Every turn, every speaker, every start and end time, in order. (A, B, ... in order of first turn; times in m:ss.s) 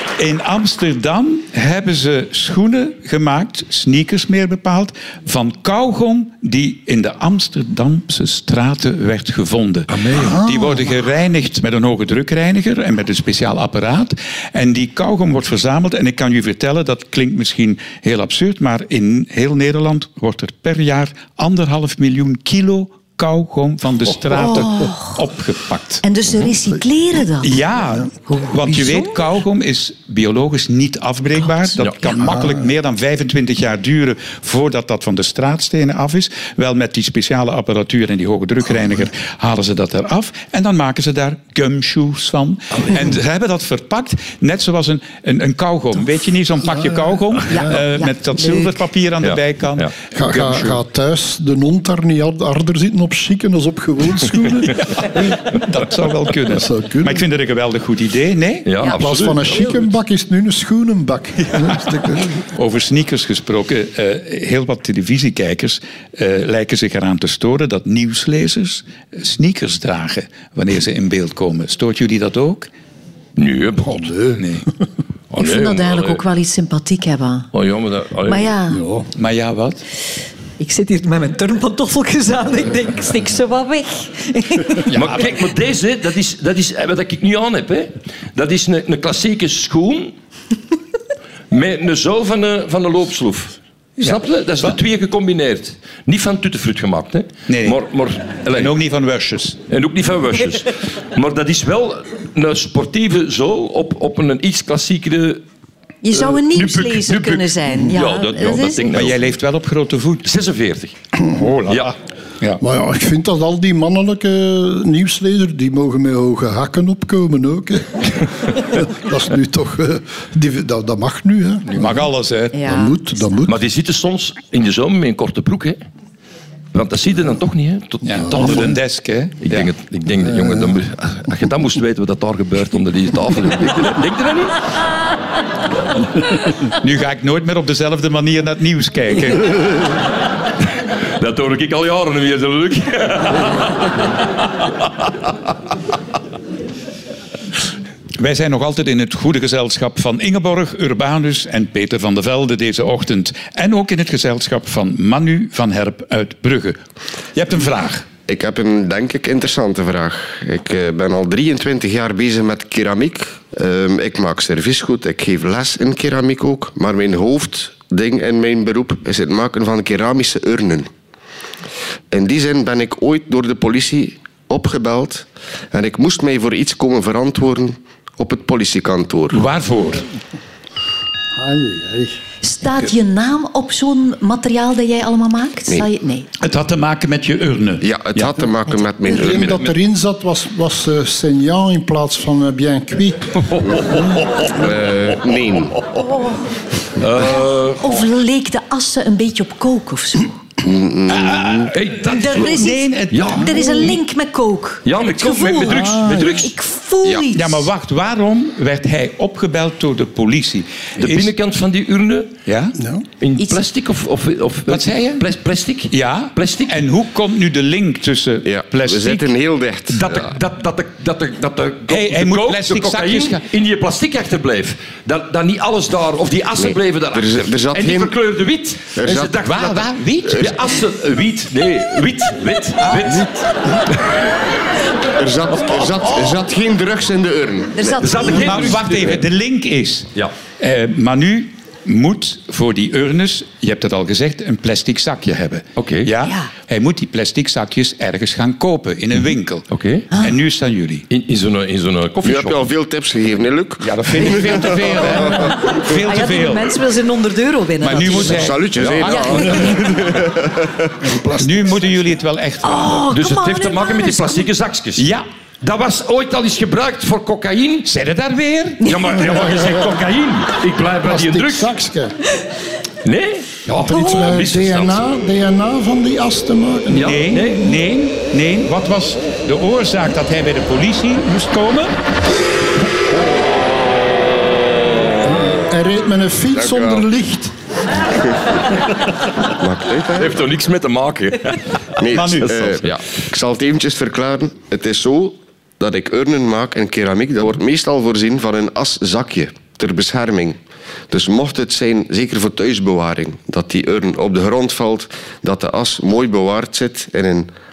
0:00.2-0:26.0 A
0:09.9-0:10.3 B
0:10.1-0:10.8 C
0:24.3-0:25.2 D
0:26.0-0:27.6 D
0:27.4-0:50.8 A
0:28.2-0:29.2 D
0:31.4-0:32.2 D
0:47.5-0:48.8 D
0:49.2-0:49.9 B
0:50.1-0:55.4 C
0:55.0-0:58.9 A
0:56.5-0:57.3 C
0:58.6-0:59.9 B
0:58.9-1:02.4 C
1:02.5-1:12.7 A
1:13.4-1:14.1 B
1:13.8-1:14.4 C
1:14.4-1:14.6 A
1:15.3-1:16.2 B
1:15.4-1:17.5 D
1:17.5-1:18.5 B
1:18.3-1:18.8 D
1:18.7-1:19.1 C
1:19.1-1:19.8 A
1:20.6-1:24.9 D
1:24.9-1:25.3 A
1:24.9-1:30.1 B
1:31.5-1:38.7 B
1:34.0-1:34.8 A
1:37.5-1:37.8 A
1:38.5-1:39.6 A
1:39.7-1:45.4 B
1:46.0-1:48.8 D
1:46.5-1:49.2 B
1:48.8-1:50.3 A
1:50.2-1:50.9 B
1:51.3-1:52.6 A
1:51.7-1:51.9 B
1:52.6-2:02.0 C
2:01.7-2:02.6 A
2:02.5-2:03.4 D
2:02.6-2:03.6 C
2:03.5-2:05.8 B
2:06.7-2:08.8 B
2:08.0-2:09.7 A
2:09.4-2:14.6 B
2:16.6-2:19.8 A
2:21.2-2:23.9 B
2:28.2-2:36.8 A
2:37.4-2:38.1 A
2:38.3-2:50.9 E
2:52.1-2:59.4 E
2:59.3-3:00.0 A
3:01.4-3:02.2 C
3:02.4-3:06.3 D
3:06.4-3:08.3 A
3:07.8-3:09.6 E
3:09.0-3:13.4 C
3:09.2-3:09.7 B
3:13.5-3:14.5 B
3:14.5-3:15.8 E
3:16.0-3:16.4 D
3:17.0-3:18.0 B
3:17.2-3:20.4 D
3:20.6-3:21.7 E
3:21.1-3:23.9 A
3:21.7-3:23.5 B
3:22.0-3:27.7 D
3:24.8-3:26.5 B
3:25.7-3:26.3 C
3:27.3-3:31.3 A
3:31.0-3:32.4 B
3:32.5-3:32.8 A
3:32.8-3:33.0 C
3:33.2-3:36.8 B
3:34.7-3:35.2 A
3:35.9-3:39.3 A
3:38.4-3:40.1 E
3:39.9-3:54.2 B
3:41.9-3:43.4 A
3:46.6-3:48.1 E
3:49.0-3:49.6 E
3:49.4-3:50.5 A
3:52.8-3:53.2 A
3:55.2-3:58.0 E
3:55.7-3:56.3 B
3:57.8-3:58.8 D
3:58.0-3:59.2 B
3:58.2-4:11.0 A
4:05.8-4:06.1 B
4:09.7-4:10.1 B
4:11.1-4:12.7 B
4:12.2-4:15.2 E
4:13.8-4:16.8 A
4:15.0-4:18.5 D
4:17.8-4:19.4 A
4:18.2-4:20.9 E
4:18.8-4:19.2 B
4:19.1-4:19.8 D
4:21.0-4:21.8 C
4:21.4-4:23.1 A
4:22.6-4:24.5 D
4:23.1-4:25.1 B
4:25.0-4:25.2 A
4:25.6-4:27.9 B
4:27.9-4:29.3 A
4:28.8-4:31.8 B
4:31.0-4:32.2 C
4:33.0-4:35.0 B
4:33.8-4:37.2 C
4:36.9-4:37.7 B
4:36.9-4:41.9 A
4:45.2-4:47.5 C
4:46.6-4:47.0 E
4:49.6-4:50.4 E
4:50.1-4:52.0 B
4:52.0-5:00.6 E
4:52.1-4:52.8 A
5:01.1-5:07.5 E